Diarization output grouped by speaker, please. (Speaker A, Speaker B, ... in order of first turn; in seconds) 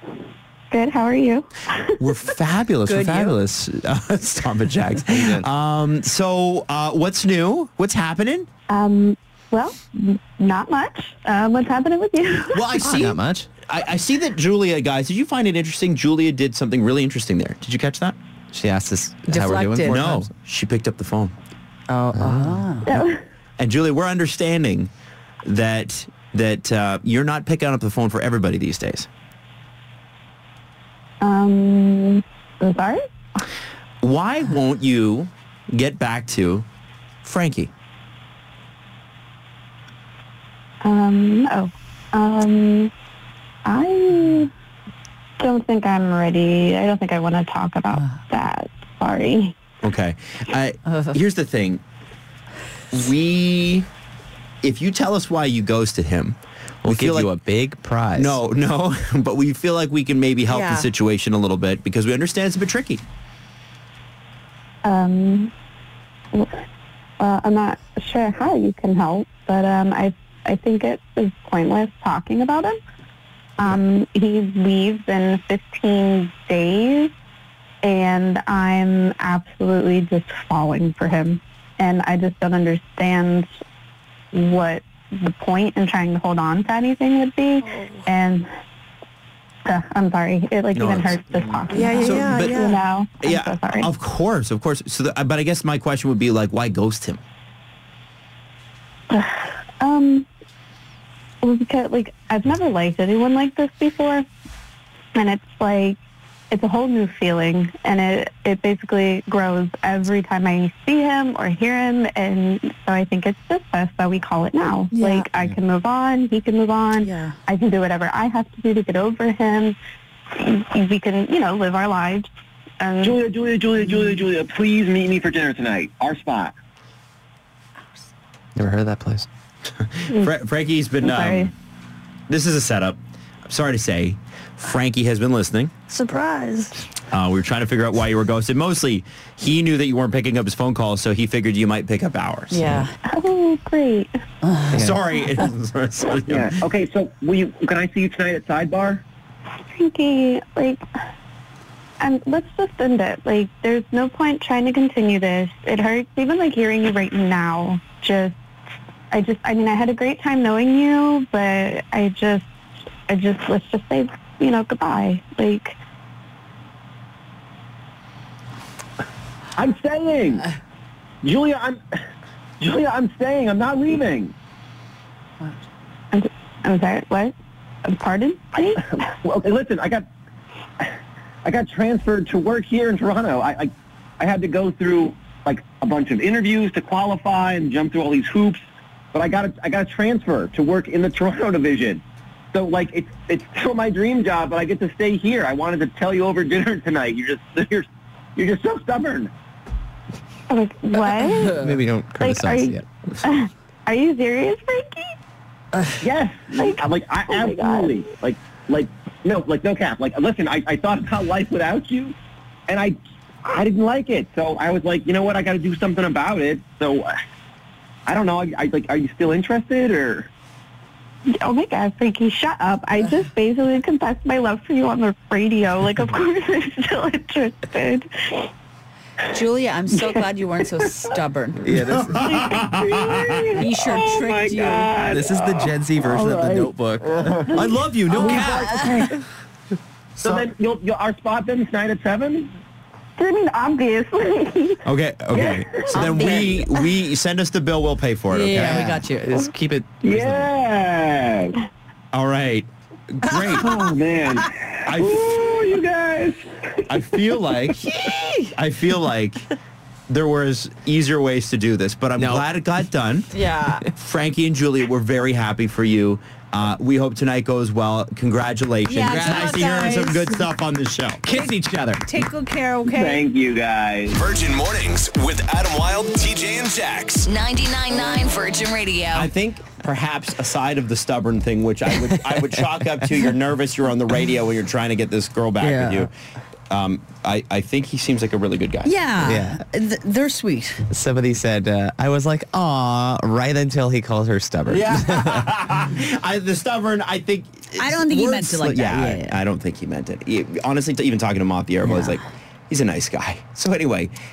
Speaker A: 0.7-2.0, 8.7-13.1, 22.9-23.2, 31.2-33.0, 40.8-42.9, 43.6-44.5, 45.4-49.6, 64.8-65.5, 67.2-72.8, 73.6-77.1, 77.8-83.5, 84.3-88.5, 89.7-93.9, 99.1-100.3, 101.4-104.2, 105.2-106.0, 106.5-119.8, 120.3-122.3, 122.8-123.2, 131.0-131.5, 143.1-144.1, 149.7-150.8, 152.0-158.3, 159.1-162.4, 163.1-165.8, 176.1-177.3, 177.9-178.9, 200.5-205.1, 206.6-208.0, 221.4-228.5, 243.2-244.8, 245.4-246.7
Speaker B: 2.0-8.5, 12.5-18.2, 19.8-21.3, 23.6-24.9, 25.4-29.1, 34.0-36.7, 37.2-37.7, 49.8-51.8, 52.9-53.9, 54.6-57.3, 58.1-63.0, 90.8-91.2, 92.0-97.2, 129.8-131.5, 132.3-135.7, 137.1-142.8, 144.7-146.5, 231.9-233.4, 237.5-238.8, 244.8-249.0, 252.1-253.7, 254.9-255.2, 256.9-257.8, 258.5-259.4, 260.1-263.3, 263.9-271.2, 279.1-286.1, 286.7-288.9, 294.7-304.1
Speaker C: 2.9-3.4, 5.1-5.5, 12.9-13.5, 18.5-20.2, 22.1-22.6, 56.9-58.4, 128.6-129.3, 201.4-202.8, 231.6-232.2, 235.1-237.7, 248.5-250.5, 262.2-262.4, 269.1-270.0, 271.3-272.2, 282.1-283.1, 289.2-289.6, 290.9-295.4
Speaker D: 19.3-20.0, 21.9-22.9, 60.5-60.9, 87.7-88.0, 91.7-92.8, 114.9-115.3, 117.0-117.4, 135.9-136.8, 142.5-142.9, 229.3-231.8, 233.6-234.9, 238.2-239.1, 248.3-249.5, 257.9-258.4, 263.3-263.8, 268.9-270.4, 272.1-273.2, 288.8-290.9, 297.8-299.3, 301.8-302.2
Speaker E: 123.0-126.5, 146.3-149.0, 169.6-170.5, 171.2-171.8, 172.6-174.3, 178.7-180.0, 181.4-188.6, 189.1-192.0, 192.5-197.9, 198.4-199.3, 206.0-212.2, 212.7-217.1, 218.1-220.3, 232.1-237.5, 238.1-239.2, 240.2-242.5, 245.4-246.5, 250.0-251.6, 253.5-256.4, 272.9-274.2
Speaker F: 274.2-277.2
Speaker G: 277.2-279.3